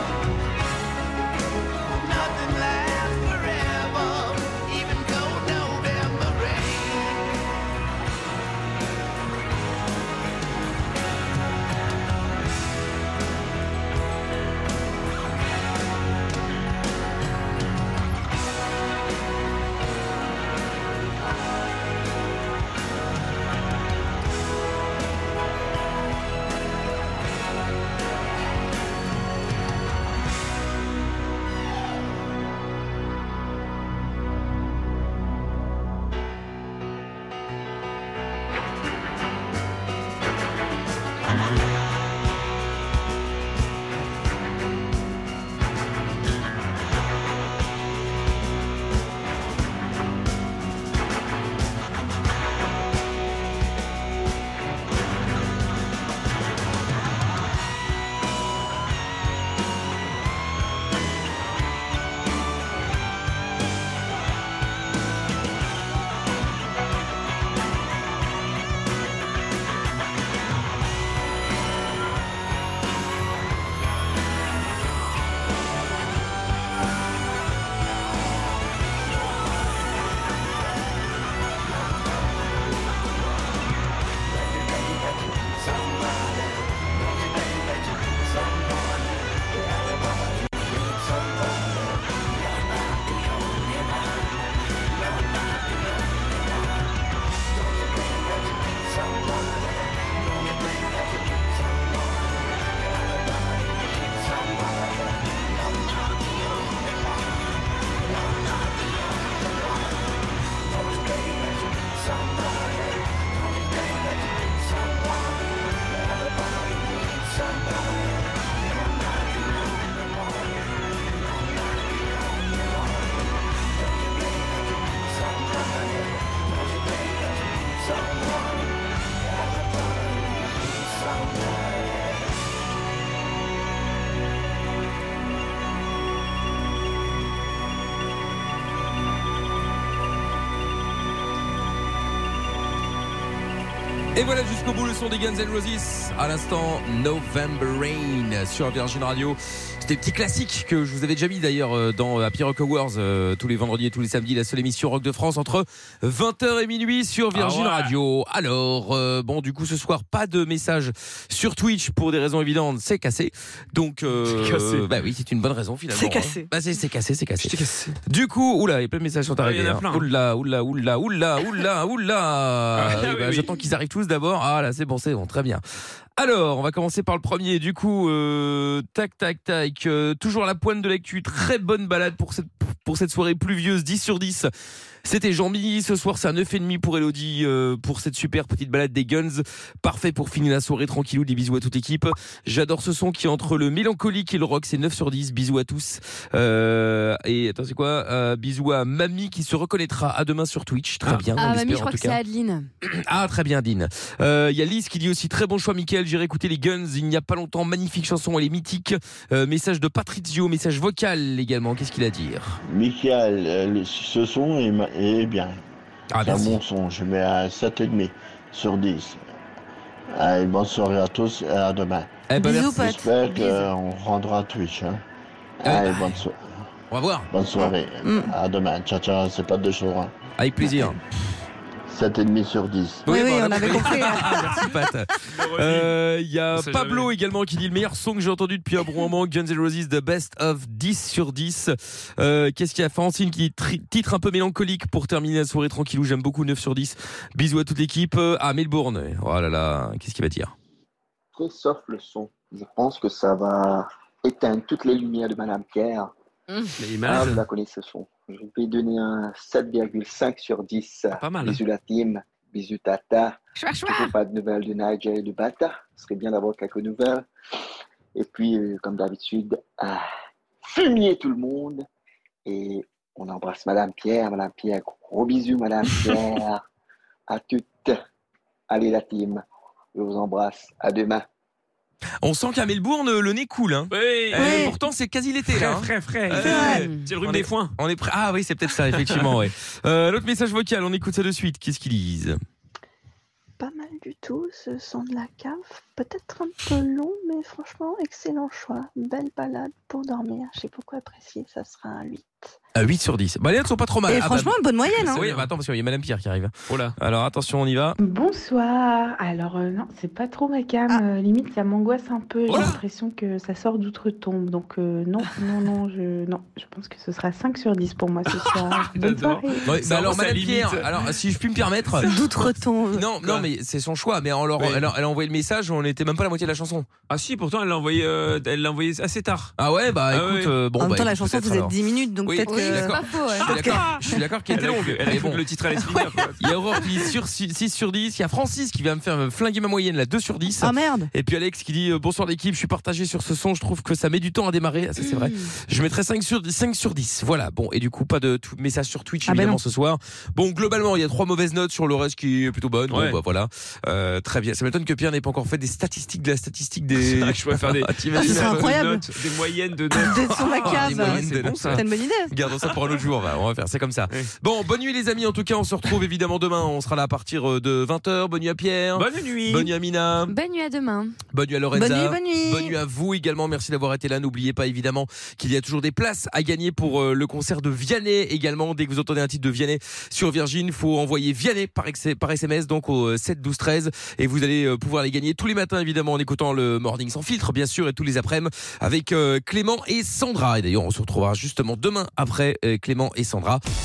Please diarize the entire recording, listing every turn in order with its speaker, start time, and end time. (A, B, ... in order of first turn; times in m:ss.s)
0:01.8-0:07.4 A
1:45.5-1:46.9 A
2:24.1-2:55.6 B
2:37.3-2:37.9 C
2:44.3-2:44.9 C
2:45.9-2:46.5 D
2:47.4-2:48.0 C
2:49.4-2:50.1 C
2:52.8-2:53.5 C
2:56.2-3:04.5 B
3:05.0-3:22.2 B
3:21.4-3:22.7 E
3:22.8-3:32.6 B
3:32.6-3:35.6 F
3:36.1-3:36.6 B
3:36.2-3:39.2 F
3:40.1-3:45.0 F
3:42.3-3:43.0 B
3:42.4-3:43.6 D
3:45.6-3:46.5 F
3:45.6-3:46.2 B
3:46.9-3:47.3 B
3:47.3-3:50.1 F
3:48.0-3:48.3 D
3:50.4-3:51.0 B
3:51.9-3:53.1 F
3:53.0-4:10.5 B
3:53.1-3:54.7 D
3:53.5-3:54.4 C
3:55.3-3:55.9 C
3:56.5-3:57.1 C
4:11.4-4:16.1 G
4:16.8-4:17.4 C
4:17.0-4:27.3 G
4:21.2-4:21.6 C
4:23.6-4:24.1 E
4:28.2-4:30.0 G
4:30.6-4:31.9 G
4:32.5-4:36.6 G
4:37.3-4:38.0 G
4:38.7-4:39.4 G
4:40.0-4:41.3 G
4:42.2-4:52.4 B
4:43.9-4:44.7 C
4:44.4-4:44.8 D
4:45.5-4:47.7 C
4:46.4-4:46.9 D
4:46.7-4:47.0 E
4:53.6-5:02.6 H
5:02.8-5:08.0 B
5:04.1-5:05.2 D
5:04.9-5:05.5 C
5:06.7-5:06.9 C
5:08.0-5:19.6 I
5:12.5-5:12.8 C
5:18.9-5:20.9 C
5:19.6-5:22.1 B
5:22.0-5:22.3 C
5:22.0-5:23.1 D
5:22.9-5:26.9 B
5:23.2-5:23.5 C
5:24.6-5:24.9 C
5:27.1-5:29.5 C
5:29.6-5:35.4 B
5:30.1-5:30.5 C
5:30.8-5:34.2 D
5:32.4-5:33.5 E
5:33.5-5:33.8 C
5:34.5-5:36.5 C
5:35.9-5:36.3 D
5:36.4-5:58.8 B
5:40.6-5:41.1 D
5:45.0-5:45.5 E
5:49.3-5:49.6 D
5:52.9-5:53.2 C
5:57.0-6:01.8 C
5:58.2-5:59.0 D
5:59.9-6:02.3 D
6:00.1-6:10.3 B
6:09.0-6:09.7 C
6:10.3-6:11.2 E
6:11.3-6:33.6 B
6:11.7-6:12.8 D